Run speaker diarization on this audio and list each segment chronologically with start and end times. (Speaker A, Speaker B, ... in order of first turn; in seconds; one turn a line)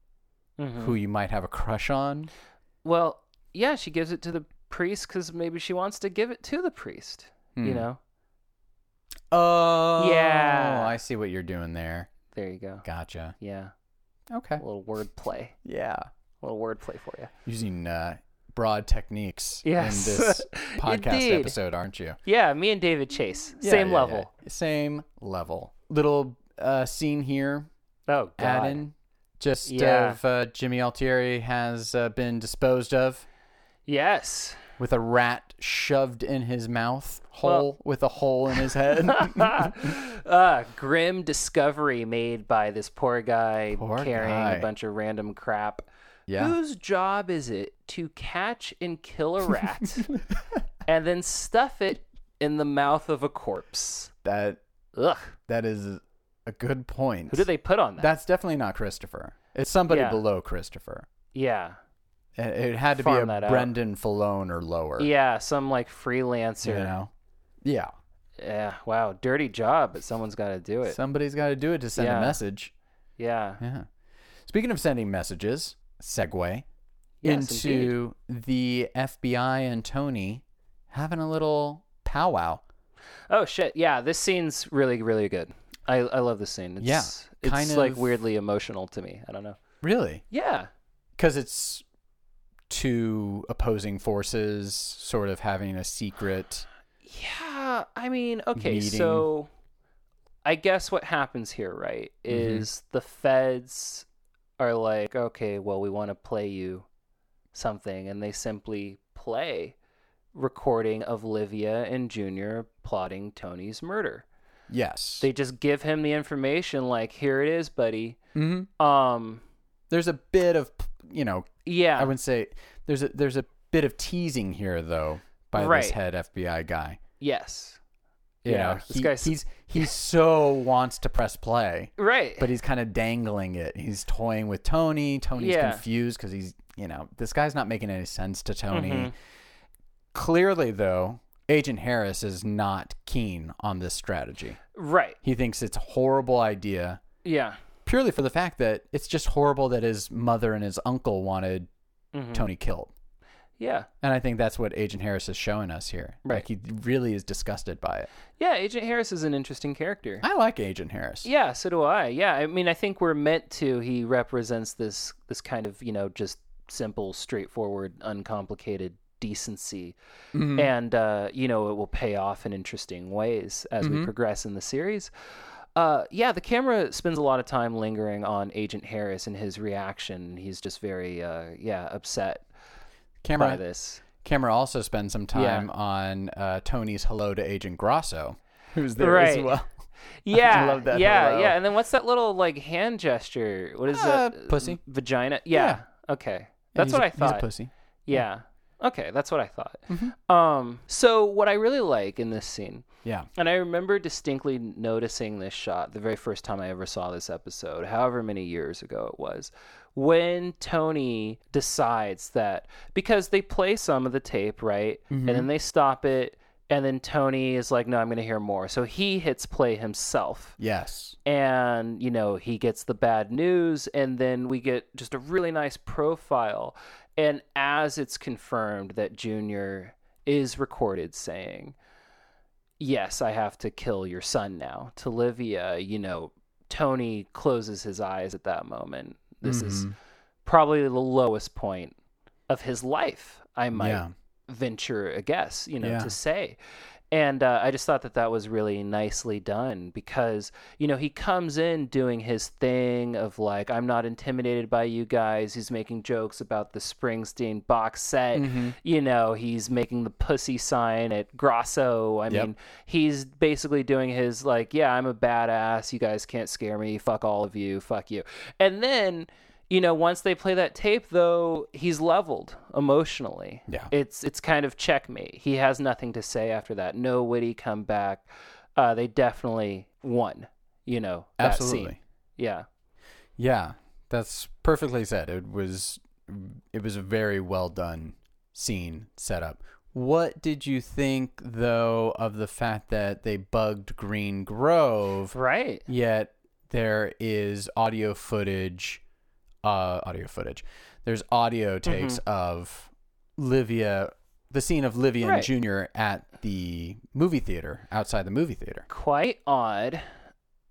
Speaker A: 0.6-1.0
Speaker B: 0.8-2.3
Speaker A: 2.8-8.0
Speaker B: 7.6-7.9
Speaker B: 9.3-12.1
Speaker A: 10.0-10.9
Speaker A: 12.3-12.8
Speaker B: 12.8-13.3
Speaker A: 13.4-13.7
Speaker B: 14.3-14.6
Speaker A: 14.6-15.6
Speaker B: 15.6-16.1
Speaker A: 16.4-17.3
Speaker B: 17.5-22.2
Speaker A: 19.6-21.6
Speaker A: 22.2-24.3
Speaker B: 23.6-27.7
Speaker A: 28.1-28.8
Speaker B: 28.4-33.2
Speaker A: 29.6-30.2
Speaker A: 33.9-34.6
Speaker B: 34.8-39.9
Speaker A: 38.9-50.1
Speaker B: 43.7-44.7
Speaker B: 46.3-46.5
Speaker A: 50.9-54.1
Speaker B: 54.2-54.6
Speaker A: 55.0-55.4
Speaker B: 55.5-61.1
Speaker A: 57.3-58.1
Speaker A: 59.9-60.2
Speaker A: 61.3-61.8
Speaker B: 62.4-65.1
Speaker A: 63.0-63.7
Speaker A: 65.0-66.9
Speaker B: 66.6-67.1
Speaker B: 67.6-67.9
Speaker A: 68.4-71.0
Speaker B: 70.8-72.7
Speaker A: 72.0-72.4
Speaker A: 73.2-73.6
Speaker B: 73.6-73.9
Speaker B: 74.5-76.7
Speaker A: 77.2-78.0
Speaker B: 77.2-82.6
Speaker A: 83.3-89.6
Speaker B: 86.8-88.2
Speaker B: 89.8-90.2
Speaker A: 90.3-90.7
Speaker B: 91.2-91.8
Speaker B: 92.7-96.7
Speaker A: 97.0-99.5
Speaker B: 98.5-99.3
Speaker A: 100.5-104.1
Speaker B: 102.3-102.7
Speaker A: 104.6-106.8
Speaker A: 107.5-109.8
Speaker A: 110.3-114.2
Speaker B: 114.7-115.3
Speaker A: 115.2-118.2
Speaker B: 118.3-118.7
Speaker A: 118.8-119.4
Speaker B: 119.9-127.0
Speaker A: 121.7-122.1
Speaker A: 125.5-126.0
Speaker A: 127.2-127.8
Speaker B: 128.4-139.1
Speaker A: 128.5-129.9
Speaker A: 132.0-132.5
Speaker A: 135.4-135.8
Speaker A: 138.7-139.1
Speaker B: 140.1-144.6
Speaker A: 144.8-145.2
Speaker B: 145.2-147.0
Speaker A: 147.2-147.6
Speaker B: 147.8-151.7
Speaker A: 152.1-152.5
Speaker B: 152.3-152.9
Speaker A: 153.6-153.9
Speaker B: 154.0-158.1
Speaker A: 158.4-160.2
Speaker B: 160.2-161.3
Speaker A: 161.2-170.0
Speaker B: 170.3-170.7
Speaker A: 170.5-175.1
Speaker B: 173.8-174.1
Speaker A: 175.8-182.4
Speaker B: 183.2-183.6
Speaker A: 183.3-184.0
Speaker B: 184.2-189.7
Speaker A: 185.3-185.7
Speaker A: 189.0-189.5
Speaker A: 190.2-197.5
Speaker B: 190.3-191.6
Speaker B: 193.9-194.8
Speaker B: 195.5-195.8
Speaker B: 196.8-198.2
Speaker A: 198.1-220.6
Speaker B: 199.9-200.1
Speaker B: 215.1-215.5
Speaker B: 220.6-221.2
Speaker A: 221.2-231.8
Speaker A: 232.8-239.9
Speaker B: 239.4-239.9
Speaker A: 240.4-241.9
Speaker A: 242.5-246.6
Speaker B: 243.7-244.1
Speaker B: 245.8-246.1
Speaker A: 247.1-282.7
Speaker B: 258.3-258.8
Speaker B: 281.4-282.0
Speaker B: 283.4-295.4
Speaker A: 295.3-295.9
Speaker B: 295.9-299.0
Speaker B: 299.6-308.9
Speaker A: 301.9-302.2
Speaker A: 305.2-305.5
Speaker A: 308.9-310.1